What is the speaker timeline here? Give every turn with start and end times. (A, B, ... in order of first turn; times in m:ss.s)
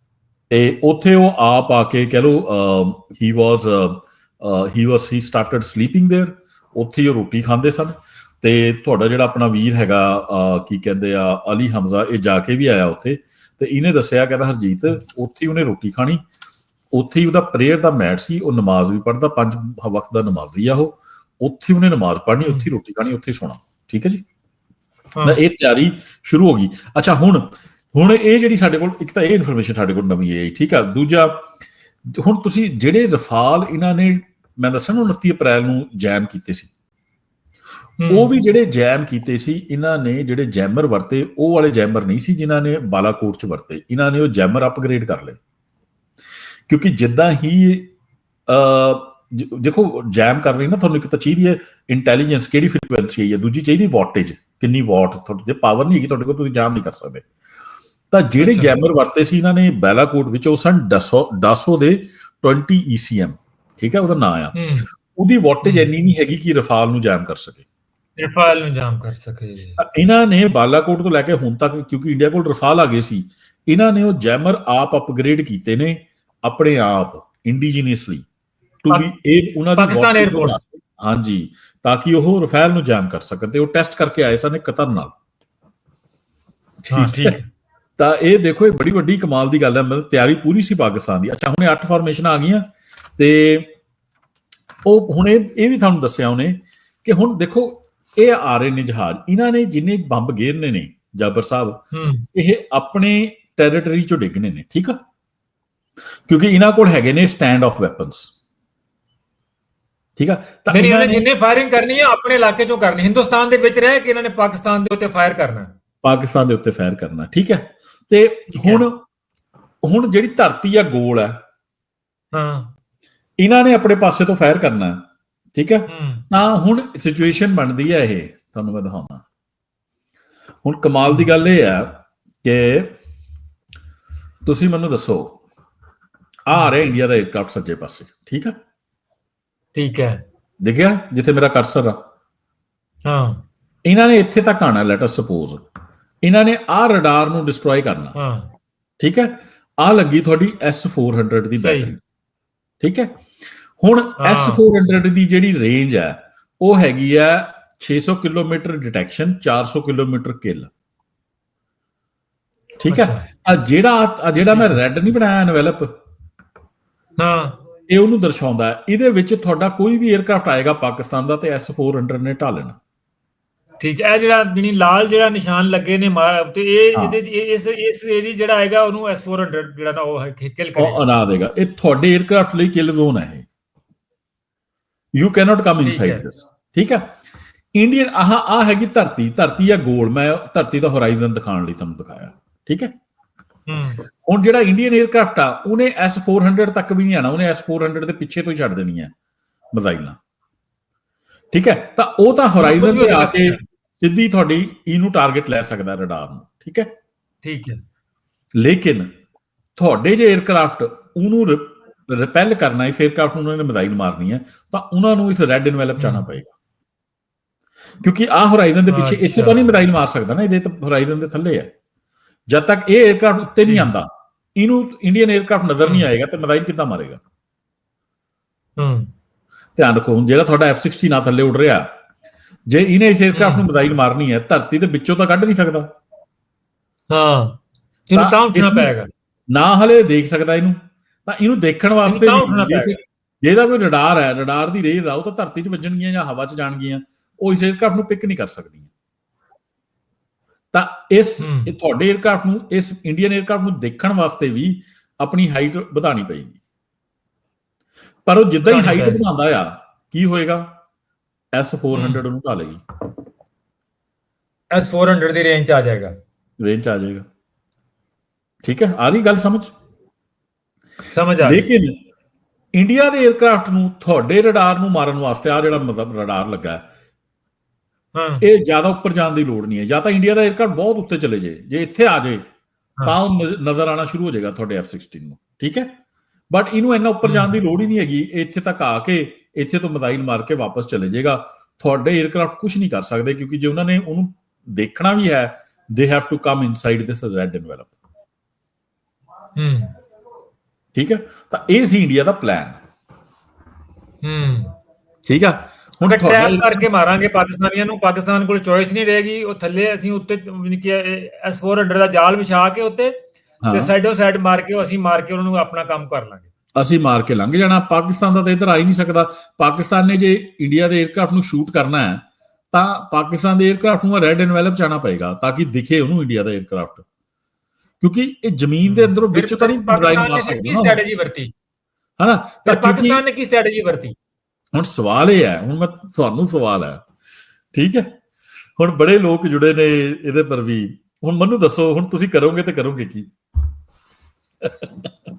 0:00.5-0:16.2 A
0:16.9-0:24.2 A
0:25.2-0:25.4 B
0:25.2-0:31.4 A
0:32.1-0:36.7 A
0:38.0-0:38.3 B
0:38.1-0:45.4 A
0:46.7-0:47.9 A
0:48.5-0:57.3 A
0:58.1-1:07.6 A
0:58.4-0:58.8 B
1:04.6-1:04.9 B
1:05.6-1:05.9 B
1:08.2-1:09.8 B
1:09.8-1:18.3 A
1:18.8-1:25.1 A
1:19.8-1:20.6 B
1:26.8-1:27.4 A
1:26.9-1:27.5 B
1:28.0-1:33.7 A
1:34.8-1:41.8 A
1:41.9-1:42.3 B
1:42.3-1:45.0 A
1:46.3-1:48.3 A
1:50.2-1:51.3 A
1:50.7-1:55.7 B
1:56.0-1:59.0 A
1:58.5-1:58.9 B
1:59.8-2:01.4 A
2:02.3-2:02.7 B
2:03.4-2:05.0 A
2:05.6-2:09.2 A
2:05.9-2:06.2 B
2:10.6-2:12.9 A
2:14.4-2:15.4 A
2:16.5-2:18.6 A
2:19.8-2:20.2 B
2:20.6-2:22.0 A
2:23.0-2:23.4 B
2:23.8-2:25.6 A
2:26.2-2:28.2 A
2:28.2-2:28.5 B
2:29.0-2:32.0 A
2:31.6-2:31.9 B
2:32.8-2:33.2 A
2:33.8-2:40.7 A
2:34.2-2:34.6 B
2:42.8-2:45.9 A
2:42.9-2:43.3 B
2:44.5-2:44.8 B
2:47.2-2:47.6 B
2:47.9-2:52.8 A
2:53.8-3:01.0 B
3:00.8-3:03.5 A
3:05.2-3:07.2 A
3:05.8-3:06.2 B
3:07.8-3:12.9 A
3:13.7-3:14.0 B
3:14.2-3:19.1 A
3:19.7-3:20.2 A
3:21.5-3:26.9 A
3:22.6-3:23.6 B
3:27.4-3:27.8 B
3:28.6-3:29.1 A
3:29.8-3:36.5 A
3:36.0-3:36.3 B
3:38.0-3:41.7 A
3:38.9-3:39.6 B
3:42.5-3:47.2 A
3:48.8-3:49.1 B
3:49.8-3:51.9 A
3:52.7-3:55.9 A
3:53.3-3:53.7 B
3:57.1-3:57.6 B
3:58.1-3:59.1 B
3:58.2-3:58.9 A
3:59.5-4:08.9 A
4:02.0-4:03.0 B
4:10.7-4:16.6 A
4:11.4-4:11.7 B
4:18.3-4:20.7 A
4:18.6-4:19.3 B
4:21.5-4:22.8 A
4:21.9-4:22.2 B
4:24.7-4:26.1 B
4:26.6-4:27.3 A
4:28.6-4:29.7 A
4:31.1-4:31.7 B
4:31.4-4:32.0 A
4:32.7-4:36.9 A
4:38.2-4:38.4 B
4:38.4-4:42.4 A
4:43.1-4:45.9 A
4:46.5-4:57.9 A
4:47.2-4:47.6 B
4:59.6-5:00.0 B
5:00.9-5:02.8 A
5:04.2-5:04.7 B
5:05.3-5:06.9 A
5:06.0-5:13.2 B
5:13.6-5:13.9 A
5:13.7-5:16.5 B
5:16.8-5:27.0 A
5:28.0-5:31.0 A
5:28.8-5:31.5 B
5:32.2-5:33.2 A
5:32.6-5:34.2 B
5:34.7-5:37.0 A
5:37.7-5:38.1 A
5:38.8-5:43.3 A
5:44.6-5:45.1 A